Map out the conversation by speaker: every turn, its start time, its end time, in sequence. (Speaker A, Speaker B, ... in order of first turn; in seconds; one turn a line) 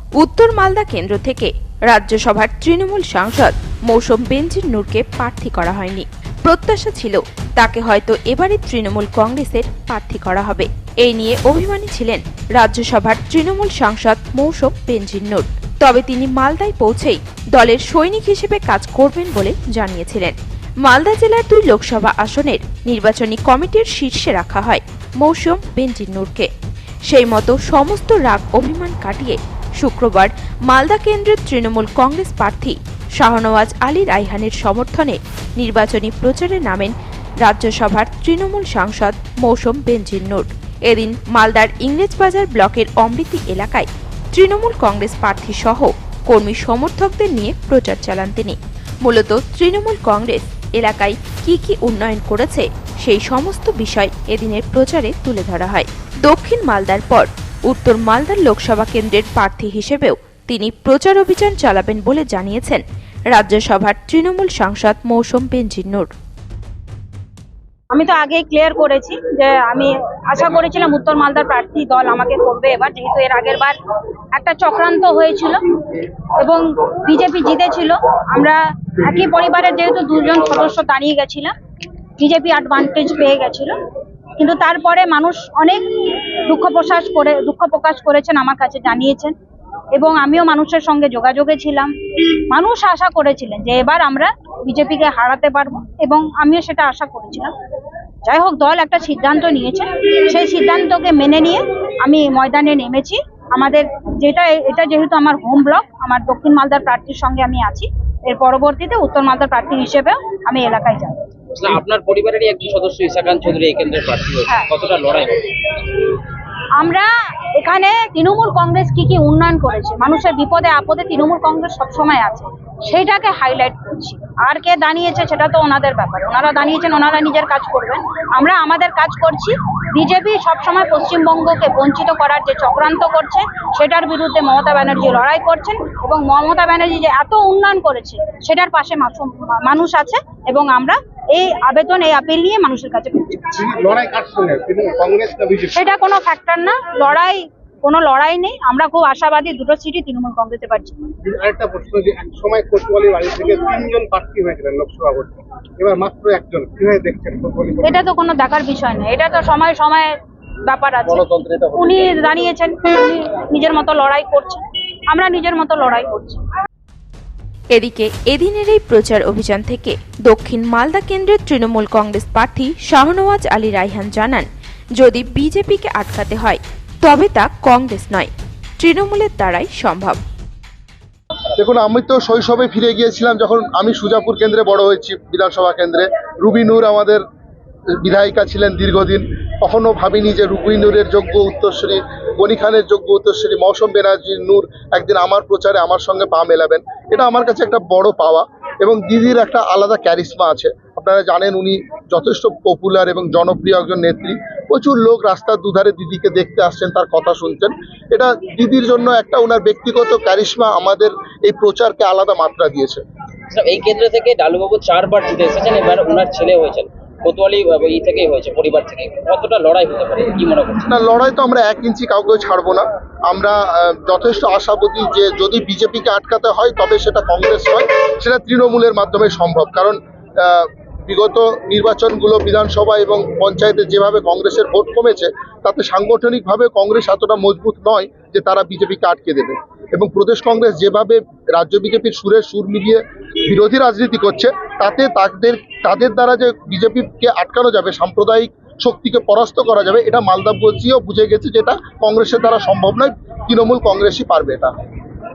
Speaker A: 0.2-26.5
Speaker A: 27.1-66.1
Speaker B: 67.9-73.8
Speaker B: 74.3-75.6
Speaker B: 76.4-81.5
Speaker B: 82.2-83.8
Speaker B: 84.4-85.8
Speaker B: 86.5-89.3
Speaker B: 89.9-91.9
Speaker B: 92.5-97.5
Speaker B: 98.2-111.3
Speaker C: 111.5-115.5
Speaker B: 116.8-143.6
Speaker D: 143.5-145.9
Speaker B: 145.7-151.0
Speaker D: 151.2-158.0
Speaker B: 157.8-160.1
Speaker B: 160.7-166.4
Speaker C: 161.2-161.8
Speaker A: 167.7-180.2
Speaker E: 181.5-187.2
Speaker E: 188.0-213.0
Speaker C: 213.5-220.8
Speaker E: 220.8-254.7